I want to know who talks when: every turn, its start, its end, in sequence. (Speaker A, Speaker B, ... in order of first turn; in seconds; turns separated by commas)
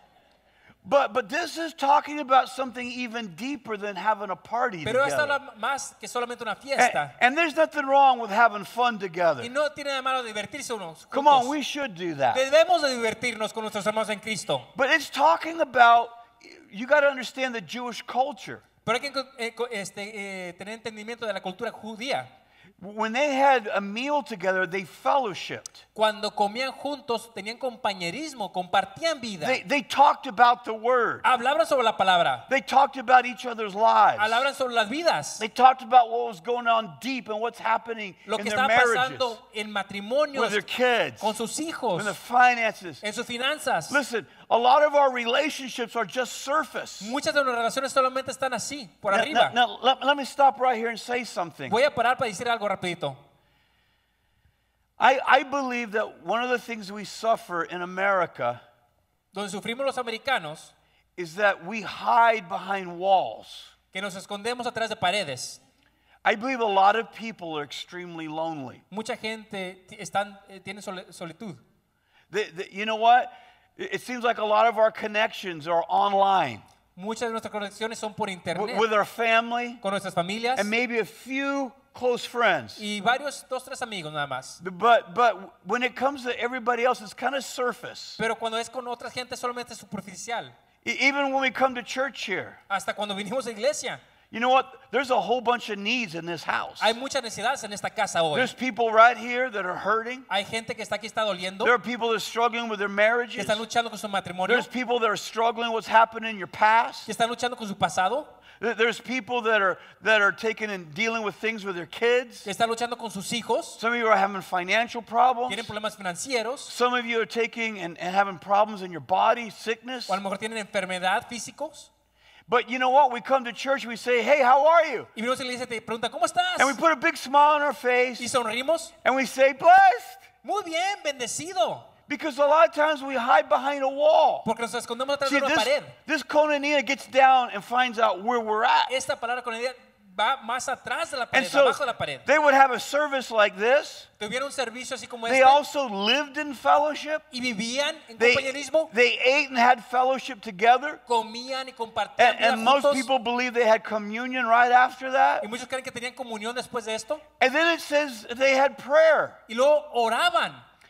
Speaker A: 0.8-5.4, Speaker B: 4.8-7.2, Speaker A: 6.8-9.5, Speaker B: 9.4-11.5, Speaker A: 11.1-12.4, Speaker B: 12.3-14.7, Speaker A: 14.8-18.6, Speaker B: 18.8-22.3, Speaker A: 22.8-25.8, Speaker B: 25.9-29.6, Speaker A: 29.4-31.2, Speaker B: 31.2-32.5, Speaker A: 32.5-34.5, Speaker B: 34.2-35.5, Speaker A: 35.4-39.4, Speaker B: 38.3-40.7, Speaker A: 40.3-41.4, Speaker B: 41.2-42.2, Speaker A: 42.0-43.0, Speaker B: 43.0-44.0, Speaker A: 43.9-47.2, Speaker B: 47.0-49.6, Speaker A: 49.1-51.8, Speaker B: 51.7-53.2, Speaker A: 55.0-58.6, Speaker B: 59.3-60.7, Speaker A: 61.2-63.7, Speaker B: 63.9-65.6, Speaker A: 66.2-68.8, Speaker B: 68.9-71.6, Speaker A: 72.3-76.6, Speaker B: 77.0-78.9, Speaker A: 78.5-79.8, Speaker B: 79.8-80.7, Speaker A: 80.6-82.8, Speaker B: 82.8-84.6, Speaker A: 84.6-88.2, Speaker B: 88.2-90.5, Speaker A: 90.8-92.6, Speaker B: 92.7-94.0, Speaker A: 94.3-97.0, Speaker B: 96.8-98.5, Speaker A: 98.3-100.3, Speaker B: 100.3-101.7, Speaker A: 101.6-103.6, Speaker B: 103.4-104.7, Speaker A: 104.5-107.1, Speaker B: 107.1-108.3, Speaker A: 108.6-112.5, Speaker B: 112.5-113.8, Speaker A: 113.8-115.7, Speaker B: 115.5-116.7, Speaker A: 116.7-120.2, Speaker B: 120.1-121.9, Speaker A: 122.5-125.1, Speaker B: 125.2-126.8, Speaker A: 126.6-128.3, Speaker B: 128.2-128.9, Speaker A: 129.0-130.2, Speaker B: 130.4-131.9, Speaker A: 132.1-134.5, Speaker B: 134.4-136.0, Speaker A: 135.2-139.0, Speaker B: 138.9-142.3, Speaker A: 141.3-144.1, Speaker B: 144.2-145.6, Speaker A: 145.3-147.3, Speaker B: 147.3-148.9, Speaker A: 148.2-151.0, Speaker B: 151.1-153.1, Speaker A: 152.2-155.5, Speaker B: 155.4-157.2, Speaker A: 157.4-159.4, Speaker B: 159.5-160.6